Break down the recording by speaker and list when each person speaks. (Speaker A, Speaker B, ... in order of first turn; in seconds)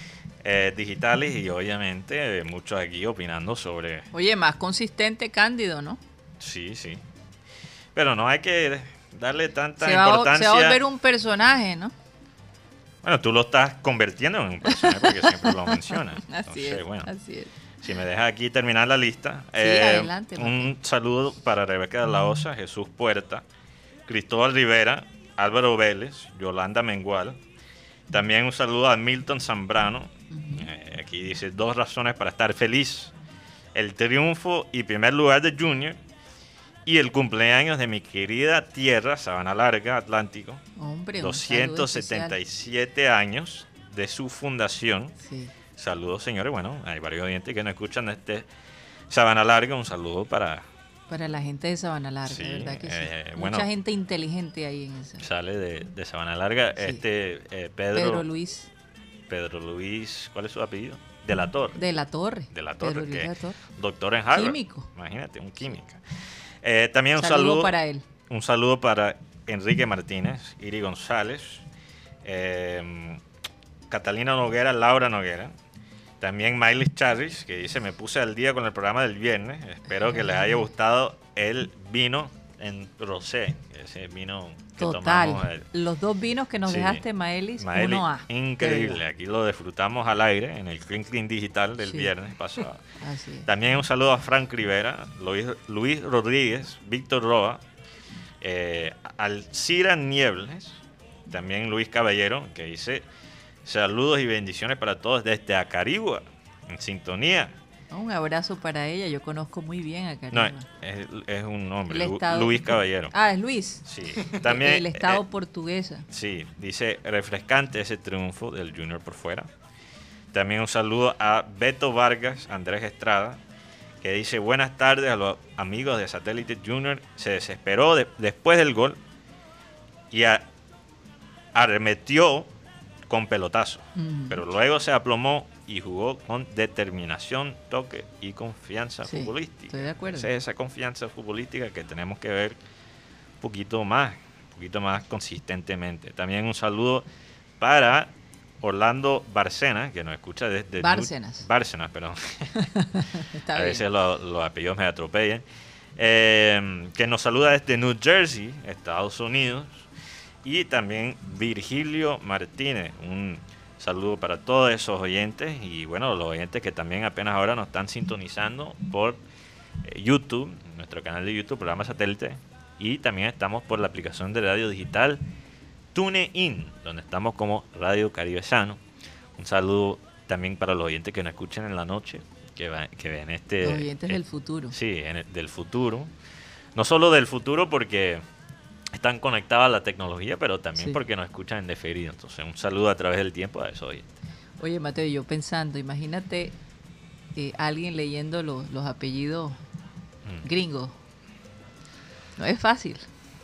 Speaker A: 0.4-4.1, 6.4-7.0, 7.9-10.8, 13.0-17.1, 17.8-23.4, 24.1-27.4, 28.1-33.1, 33.7-36.0, 36.9-40.6, 41.2-45.1, 45.8-48.5, 49.1-50.6, 52.2-53.7, 55.2-58.2, 59.3-61.8, 62.5-66.0, 66.6-67.7, 68.3-71.6, 72.2-73.2, 73.9-75.5, 76.2-85.7, 86.7-87.0, 87.6-92.8, 93.5-97.6, 98.4-100.8, 101.3-103.0, 103.6-107.5, 110.3-113.1, 113.8-115.2, 116.1-119.5, 120.3-123.4, 124.0-129.0, 130.1-130.4, 131.5-132.5, 133.1-142.6, 143.4-147.0, 147.6-152.7, 153.5-155.4, 156.0-159.8, 160.4-169.2, 169.8-175.2, 175.9-178.8, 179.4-184.2, 184.7-186.1, 186.7-188.2, 188.9-194.0
Speaker B: 4.1-6.0, 9.8-11.9, 14.6-17.5, 19.6-20.7, 30.3-30.6, 40.8-42.4, 45.2-45.5, 51.1-55.2, 57.9-58.7, 61.8-63.6, 64.3-64.9, 67.2-68.0, 79.9-80.7, 84.8-89.0, 91.8-92.1, 93.0-93.5, 107.9-110.7, 111.9-113.8, 114.4-116.0, 133.9-134.4, 139.1-140.3, 150.8-151.4, 152.6-153.8, 183.6-184.8, 194.6-196.6, 197.3-199.6, 200.4-200.9, 202.4-203.1